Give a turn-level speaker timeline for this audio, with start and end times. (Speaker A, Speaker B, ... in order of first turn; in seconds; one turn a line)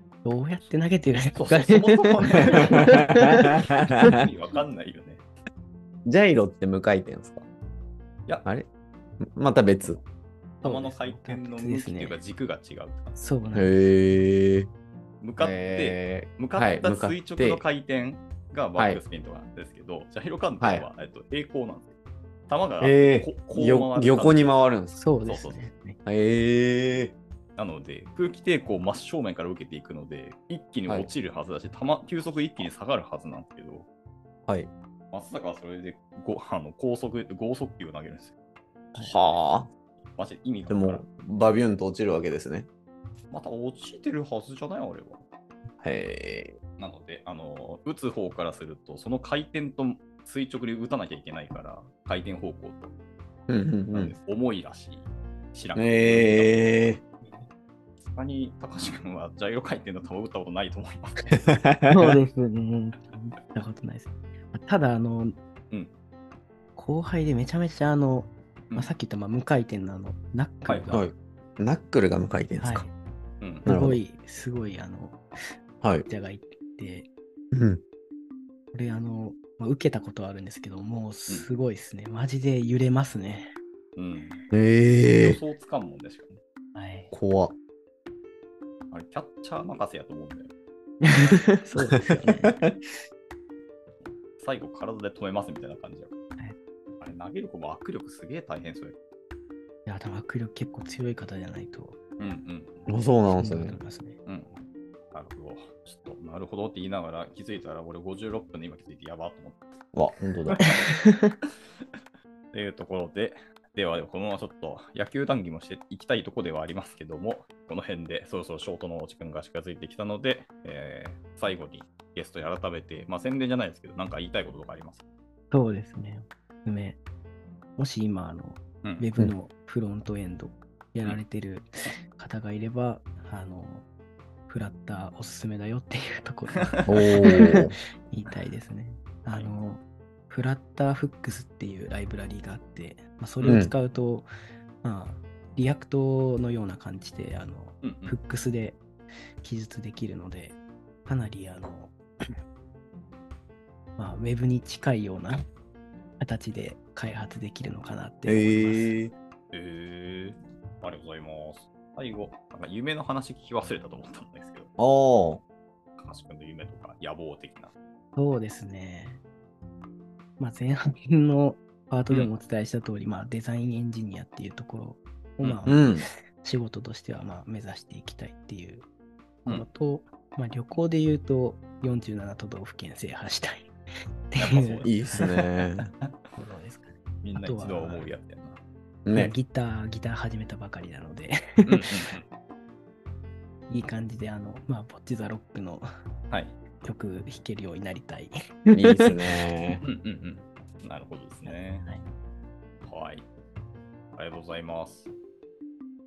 Speaker A: 0.2-3.6
Speaker B: 1.3-5.2
Speaker C: 2.8-4.2
Speaker C: 6.0-7.4
Speaker C: 9.2-10.0
Speaker A: 10.6-12.2
Speaker B: 10.6-13.2
Speaker A: 13.2-13.8
Speaker C: 13.5-14.7
Speaker B: 15.2-21.9
Speaker C: 15.4-17.6
Speaker C: 20.6-20.9
Speaker B: 22.5-24.5
Speaker C: 22.8-25.0
Speaker A: 24.9-26.0
Speaker B: 25.2-25.7
Speaker C: 26.1-27.1
Speaker B: 27.6-33.9
Speaker B: 35.1-38.3
Speaker C: 39.0-39.7
Speaker B: 40.1-41.0
Speaker C: 40.7-42.7
Speaker B: 43.3-45.2
Speaker C: 45.8-46.6
Speaker B: 46.8-52.9
Speaker C: 53.5-54.1
Speaker B: 53.9-56.5
Speaker C: 55.8-57.0
Speaker B: 58.0-61.6
Speaker C: 61.5-62.2
Speaker A: 61.9-65.3
Speaker A: 66.8-71.1
Speaker B: 70.7-71.1
Speaker C: 70.9-72.8
Speaker A: 72.6-72.9
Speaker B: 73.4-73.7
Speaker C: 73.6-74.0
Speaker A: 73.6-75.2
Speaker C: 75.8-76.1
Speaker A: 76.1-77.1
Speaker C: 77.5-77.8
Speaker A: 78.7-83.5
Speaker B: 84.0-84.4
Speaker C: 84.5-85.4
Speaker B: 85.2-86.4
Speaker A: 86.7-87.1
Speaker C: 87.1-87.5
Speaker B: 88.9-90.5
Speaker A: 91.0-92.6
Speaker C: 92.1-92.8
Speaker B: 94.4-96.1
Speaker B: 97.0-99.0
Speaker A: 99.8-102.0
Speaker B: 102.2-103.0
Speaker C: 102.9-103.8
Speaker A: 103.3-104.2
Speaker B: 104.2-104.6
Speaker B: 105.1-109.7
Speaker C: 109.9-110.6
Speaker B: 110.5-110.8
Speaker A: 110.8-111.4
Speaker B: 112.5-125.0
Speaker A: 125.5-127.0
Speaker A: 127.8-133.8
Speaker B: 128.8-129.1
Speaker A: 134.5-144.3
Speaker B: 136.6-137.6
Speaker C: 136.9-137.8
Speaker B: 143.4-143.7
Speaker C: 143.5-143.7
Speaker A: 144.8-148.8
Speaker B: 147.8-148.2
Speaker A: 149.4-152.4
Speaker A: 154.0-155.4
Speaker A: 156.2-158.9
Speaker C: 158.2-159.1
Speaker B: 159.5-164.7
Speaker C: 164.8-165.4
Speaker B: 166.0-167.7
Speaker A: 168.2-169.2
Speaker A: 170.4-178.8
Speaker B: 175.4-175.7
Speaker C: 175.7-176.1
Speaker A: 179.5-183.7
Speaker A: 184.3-185.3
Speaker B: 184.4-185.3
Speaker C: 184.8-185.9
Speaker A: 186.3-188.1
Speaker B: 187.2-188.6
Speaker C: 189.0-189.3
Speaker A: 189.1-191.9
Speaker B: 191.7-192.2
Speaker A: 193.7-195.8
Speaker B: 196.3-196.6
Speaker A: 196.8-199.1
Speaker C: 198.7-199.8
Speaker B: 199.8-201.9
Speaker A: 201.4-202.0
Speaker B: 202.8-203.2
Speaker B: 204.1-205.1